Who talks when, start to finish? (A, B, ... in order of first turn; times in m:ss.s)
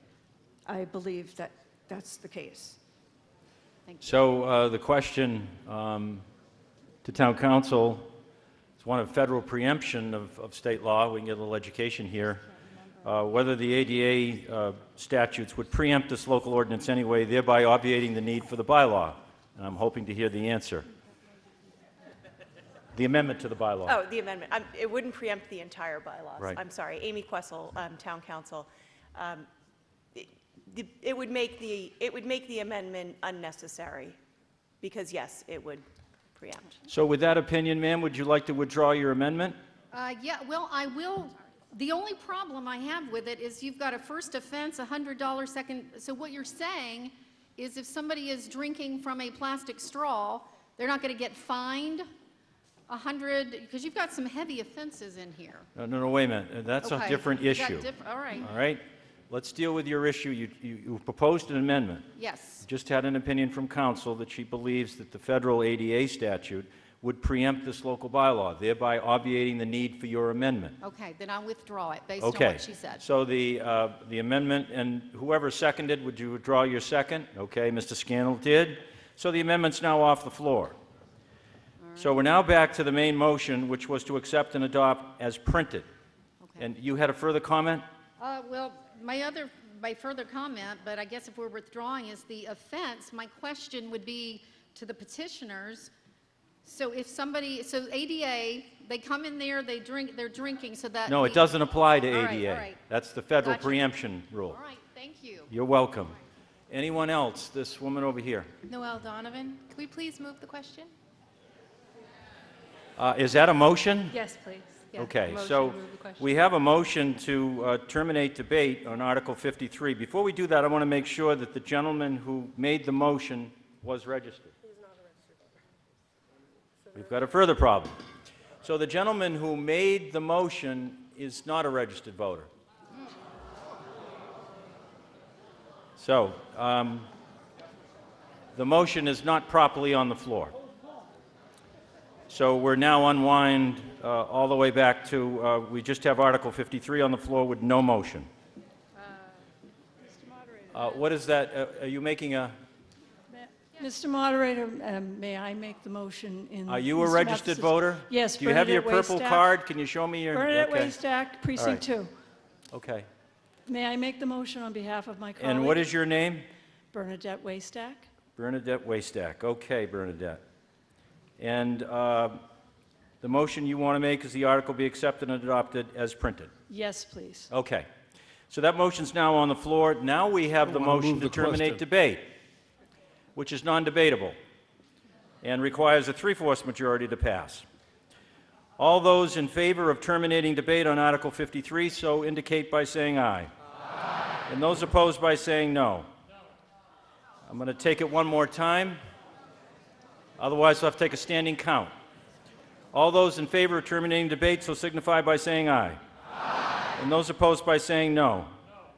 0:00.6-0:02.8 A
0:03.8-0:04.2 B
0:04.0-0:06.2 C
0:07.0-0:08.1 C
0:08.8-0:12.4 C
0:13.0-0:20.8 C
0:22.9-0:24.0 C
0:23.8-0:29.5 D
0:30.1-0:34.2 D
0:34.8-0:35.8 D
0:36.4-0:36.8 D
0:36.9-0:39.6 C
0:39.9-0:52.0 B
0:52.9-0:55.7 B
0:55.8-0:57.9 C
0:56.8-0:58.5 B
0:58.4-1:02.1 C
1:02.2-1:02.6 B
1:02.6-1:10.8 C
1:10.8-1:13.0 B
1:12.2-1:20.8 C
1:21.8-1:22.2 B
1:22.0-1:25.9 C
1:26.4-1:26.7 B
1:26.6-1:27.8 C
1:28.2-1:35.9 B
1:36.6-1:42.8 B
1:41.0-1:44.6 C
1:43.4-1:43.9 B
1:44.4-1:45.5 B
1:45.5-1:46.1 C
1:46.7-1:48.5 C
1:48.7-1:50.9 E
1:53.0-1:54.2 C
1:54.1-1:56.4 E
1:54.9-2:04.5 C
2:06.9-2:08.0 C
2:08.6-2:12.5 C
2:16.0-2:17.1 C
2:18.5-2:20.5 C
2:22.3-2:28.3 C
2:30.7-2:32.5 C
2:33.3-2:39.5 F
2:36.7-2:40.9 C
2:40.3-2:42.1 F
2:41.6-2:41.8 C
2:42.7-2:43.1 C
2:43.7-2:45.8 F
2:45.4-2:46.5 C
2:46.9-2:48.1 F
2:48.4-2:50.4 C
2:51.4-2:52.4 C
2:53.2-2:56.5 C
2:56.7-2:57.5 F
2:57.5-2:57.9 C
2:58.5-3:02.3 C
3:00.8-3:01.7 A
3:03.4-3:04.4 C
3:05.4-3:07.6 C
3:08.8-3:13.5 C
3:14.5-3:16.1 C
3:17.4-3:19.0 C
3:20.4-3:21.9 C
3:22.9-3:26.0 C
3:27.0-3:28.5 C